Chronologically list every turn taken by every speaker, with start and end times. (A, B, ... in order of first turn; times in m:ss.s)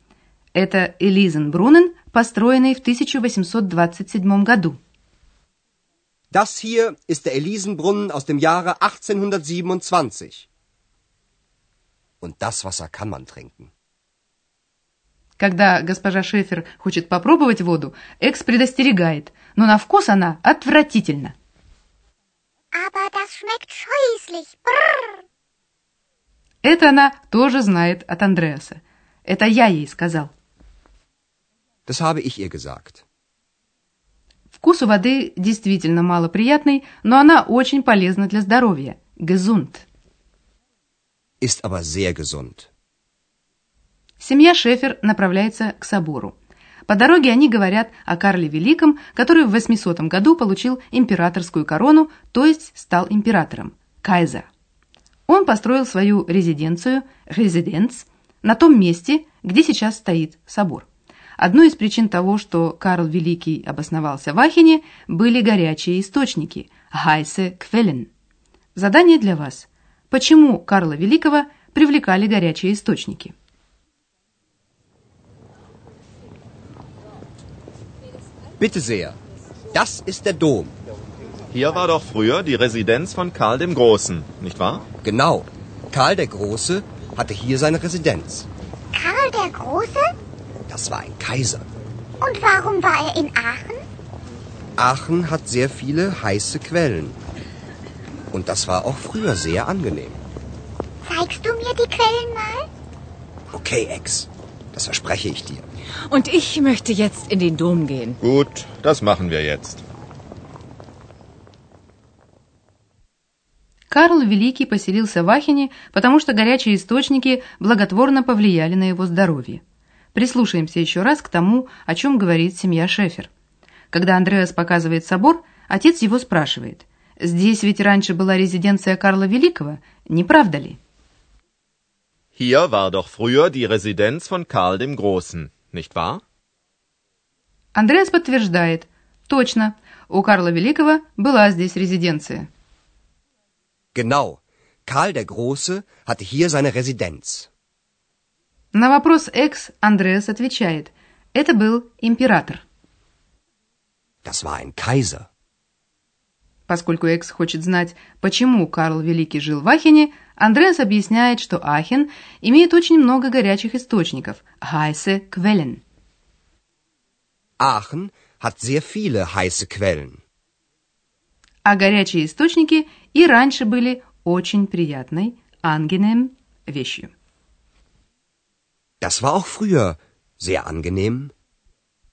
0:00.5-0:04.8 A
0:06.3-0:10.5 B
0:12.2-0:13.7 B
0:15.4-0:21.3 A
0:22.8-0:25.1 C
0:26.6-0:30.3 A
0:31.9-0:33.0 B
0:34.6-0:39.8 A
0:41.4-0:42.7 B
0:44.2-0:46.4 A
0:46.9-0:54.5 A
0:55.3-1:00.8 A
1:01.4-1:08.1 A
1:08.7-1:13.3 A
1:18.6-1:19.2 B
1:19.7-1:20.7 B
1:21.5-1:24.9 D
1:25.0-1:28.5 B
1:28.9-1:30.1 C
1:30.7-1:31.7 B
1:32.2-1:33.8 C
1:34.8-1:37.2 B
1:38.3-1:40.2 B
1:41.0-1:42.7 C
1:43.5-1:45.6 B
1:46.1-1:48.2 E
1:48.2-1:49.8 D
1:53.9-1:59.6 A
2:00.1-2:03.3 A
2:03.9-2:10.8 A
2:12.4-2:16.2 D
2:17.7-2:22.5 A
2:23.9-2:27.5 B
2:28.7-2:32.6 A
2:34.2-2:35.3 B
2:36.7-2:45.8 A
2:47.6-2:50.2 B
2:51.6-2:57.1 A
2:59.0-3:01.3 B